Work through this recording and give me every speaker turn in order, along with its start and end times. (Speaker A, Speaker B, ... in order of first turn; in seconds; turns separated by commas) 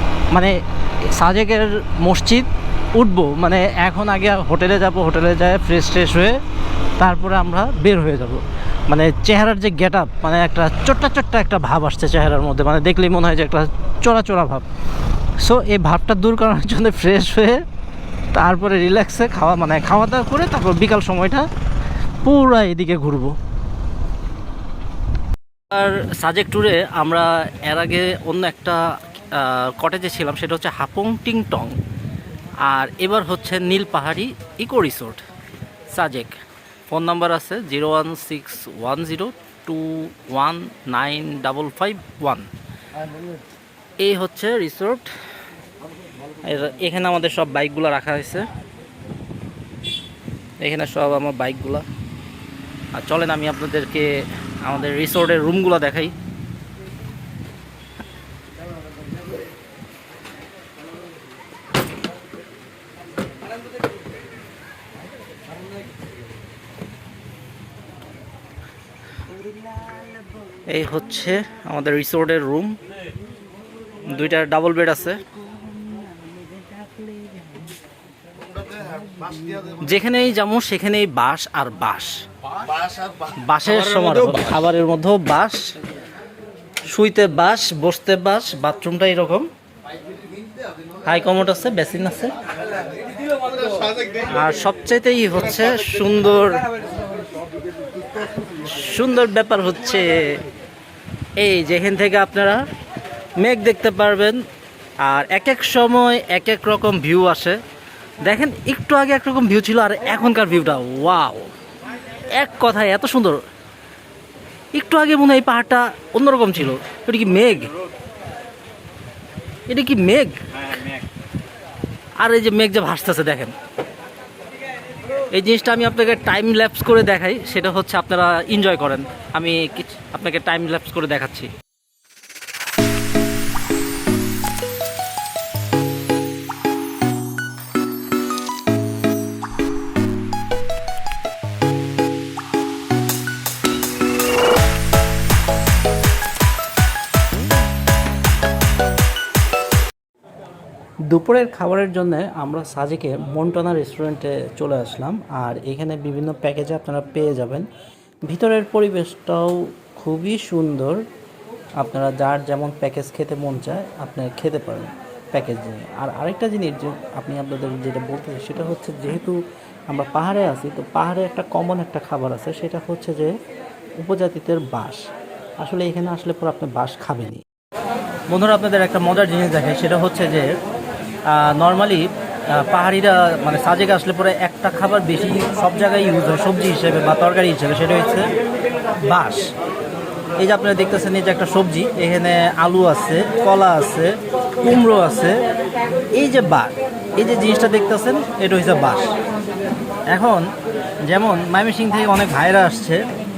Speaker A: 0.3-6.4, Speaker A: 7.0-14.7, Speaker A: 15.4-17.6, Speaker A: 18.3-21.5, Speaker A: 22.2-23.4, Speaker A: 25.7-31.8, Speaker A: 32.6-35.2, Speaker A: 35.9-42.5, Speaker A: 44.0-45.1, Speaker A: 46.4-48.5, Speaker A: 50.6-51.9, Speaker A: 52.9-56.1, Speaker A: 70.7-72.8, Speaker A: 74.0-75.2, Speaker A: 77.0-77.2, Speaker A: 79.7-82.2, Speaker A: 83.2-85.7, Speaker A: 86.9-89.5, Speaker A: 91.0-92.4, Speaker A: 94.1-96.7, Speaker A: 98.4-100.5, Speaker A: 101.4-102.6, Speaker A: 103.4-104.4, Speaker A: 105.0-107.6, Speaker A: 108.2-111.5, Speaker A: 112.3-113.4, Speaker A: 114.7-117.7, Speaker A: 119.7-120.4, Speaker A: 122.2-123.5, Speaker A: 125.3-131.5, Speaker A: 151.1-157.7, Speaker A: 158.2-161.1, Speaker A: 161.8-173.4, Speaker A: 174.0-175.1, Speaker A: 175.6-177.4, Speaker A: 178.3-180.6, Speaker A: 181.2-188.3, Speaker A: 189.0-189.5, Speaker A: 190.4-195.4, Speaker A: 196.1-199.1, Speaker A: 200.1-200.5, Speaker A: 201.1-203.0